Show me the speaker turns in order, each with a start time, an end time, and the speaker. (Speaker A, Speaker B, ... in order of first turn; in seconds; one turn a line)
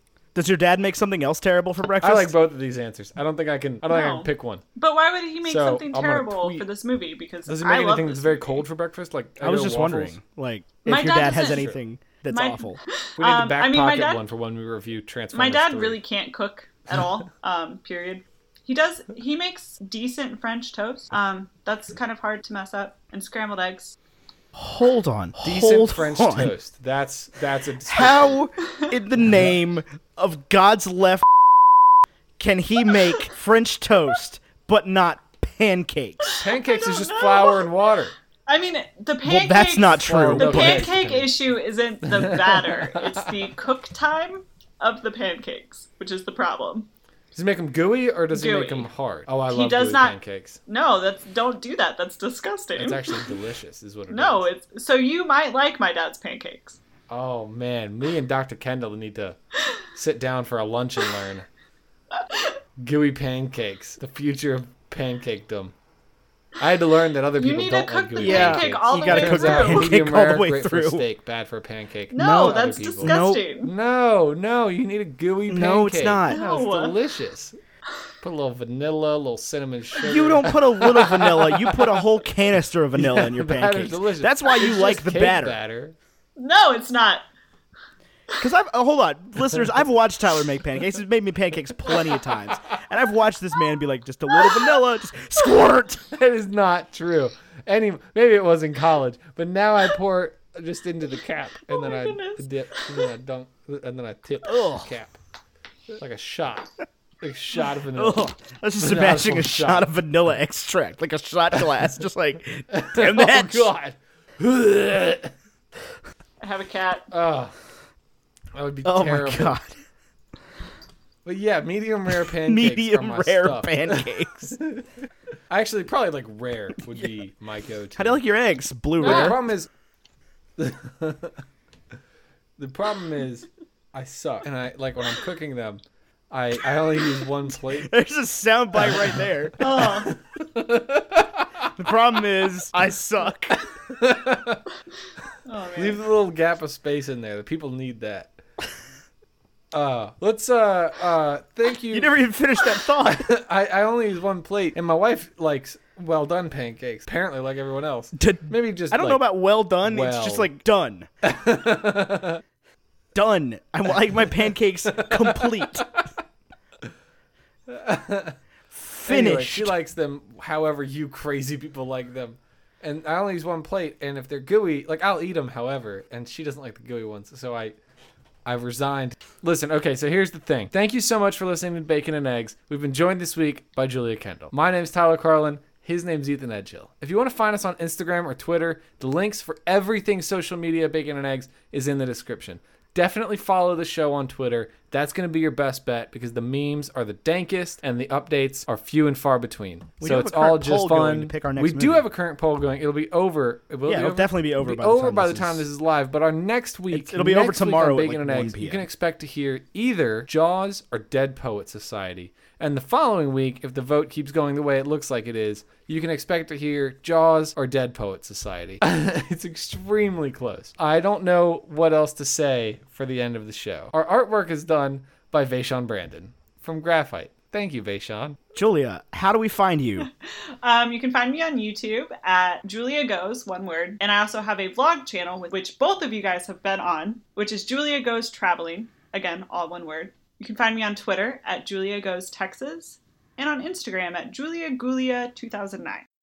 Speaker A: 0.3-2.3
Speaker B: 2.0-4.6
Speaker C: 3.9-8.6
Speaker B: 5.4-6.6
Speaker B: 7.5-10.2
Speaker A: 9.4-12.8
Speaker C: 10.8-11.7
Speaker B: 11.5-11.8
Speaker C: 12.3-14.2
Speaker B: 13.2-16.0
Speaker C: 15.3-23.9
Speaker A: 24.5-26.5
Speaker B: 25.4-28.4
Speaker A: 27.9-31.3
Speaker A: 32.4-36.4
Speaker C: 36.2-37.8
Speaker B: 36.4-38.1
Speaker C: 38.5-46.9
Speaker A: 39.2-41.0
Speaker B: 40.0-41.4
Speaker B: 42.0-43.5
Speaker B: 47.3-50.6
Speaker C: 48.3-48.9
Speaker C: 49.5-53.4
Speaker B: 52.8-54.5
Speaker C: 54.1-56.8
Speaker B: 57.1-59.4
Speaker B: 59.9-61.5
Speaker C: 62.1-62.6
Speaker B: 62.8-65.7
Speaker B: 66.6-77.5
Speaker C: 67.4-69.9
Speaker A: 68.2-71.0
Speaker C: 72.1-73.7
Speaker A: 72.1-73.4
Speaker A: 75.5-76.4
Speaker C: 76.3-76.9
Speaker B: 78.2-82.0
Speaker A: 80.0-85.6
Speaker B: 82.9-85.9
Speaker C: 86.4-87.2
Speaker A: 88.4-96.1
Speaker C: 94.3-94.8
Speaker B: 96.1-105.2
Speaker C: 101.7-103.1
Speaker A: 104.4-104.9
Speaker B: 105.9-106.7
Speaker B: 107.2-109.9
Speaker A: 107.9-113.7
Speaker B: 112.7-115.3
Speaker C: 116.4-117.1
Speaker B: 117.1-117.5
Speaker B: 118.5-119.6
Speaker A: 118.8-119.7
Speaker B: 121.2-124.8
Speaker A: 122.2-124.3
Speaker B: 125.5-128.2
Speaker A: 128.0-129.4
Speaker B: 129.0-129.7
Speaker C: 129.1-129.3
Speaker B: 130.6-131.4
Speaker B: 132.6-137.9
Speaker A: 137.8-140.1
Speaker B: 138.8-139.2
Speaker C: 139.6-140.1
Speaker B: 139.8-141.7
Speaker A: 141.8-143.6
Speaker B: 143.9-144.6
Speaker C: 145.4-146.0
Speaker B: 145.8-148.3
Speaker B: 149.7-152.1
Speaker A: 151.9-153.3
Speaker B: 153.2-159.2
Speaker A: 158.1-161.1
Speaker B: 159.8-160.5
Speaker B: 161.2-162.4
Speaker A: 163.1-165.9
Speaker B: 164.9-166.0
Speaker B: 167.7-168.4
Speaker A: 168.7-169.8
Speaker B: 169.0-177.8
Speaker B: 178.4-228.4
Speaker A: 200.0-202.0
Speaker A: 203.9-205.6
Speaker A: 206.9-208.8
Speaker A: 228.5-230.1
Speaker C: 230.6-246.0